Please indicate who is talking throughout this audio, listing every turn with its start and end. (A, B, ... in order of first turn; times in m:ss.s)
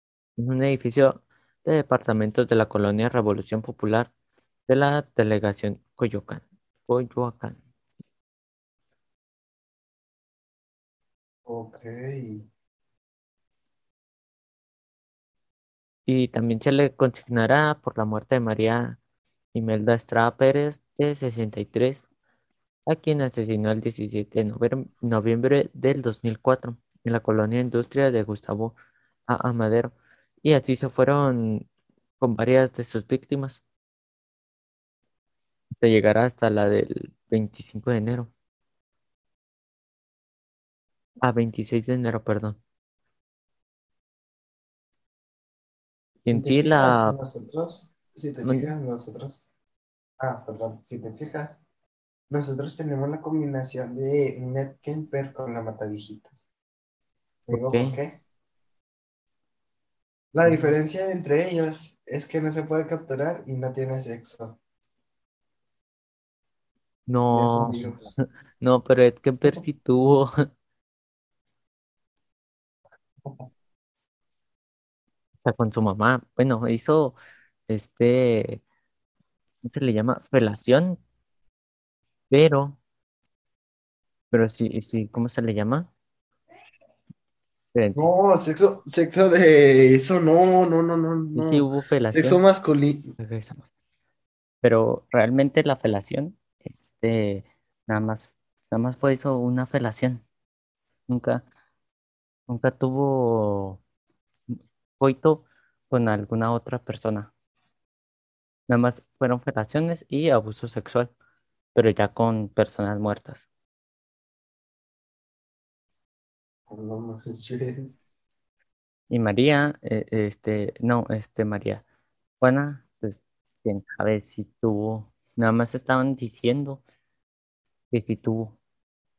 0:00.4-0:04.1 A
0:04.7-0:07.6 A
0:11.5-0:12.5 B
0:16.1-0:19.0 A
0:19.5-0:22.0 A
0:22.9-0:28.8 A
0:29.3-0:31.7 A
0:32.2-0:33.6 A
0:35.8-0:38.3 A
0:41.2-0:42.6 A
0:46.2-0:47.2 A
0:46.3-0:49.5 B
0:48.4-0:48.7 A
0:50.2-0:51.6 B
0:52.3-0:56.5 B
0:57.5-0:58.2 B
0:57.5-0:58.0 A
1:00.3-1:04.6 B
1:00.4-1:00.8 A
1:07.1-1:10.3 A
1:07.3-1:08.1 B
1:15.4-1:17.2 A
1:17.7-1:18.6 A
1:19.6-1:21.0 A
1:22.3-1:22.8 A
1:24.3-1:25.9 A
1:27.7-1:28.1 A
1:28.0-1:33.2 B
1:31.3-1:32.4 A
1:33.2-1:33.7 A
1:34.6-1:40.2 A
1:41.1-1:41.4 A
1:42.5-1:43.8 A
1:44.5-1:47.3 A
1:48.7-1:51.1 A
1:51.7-1:53.5 A
1:56.7-1:58.0 B
1:59.1-2:01.8 A
2:02.4-2:06.8 A
2:07.9-2:08.6 A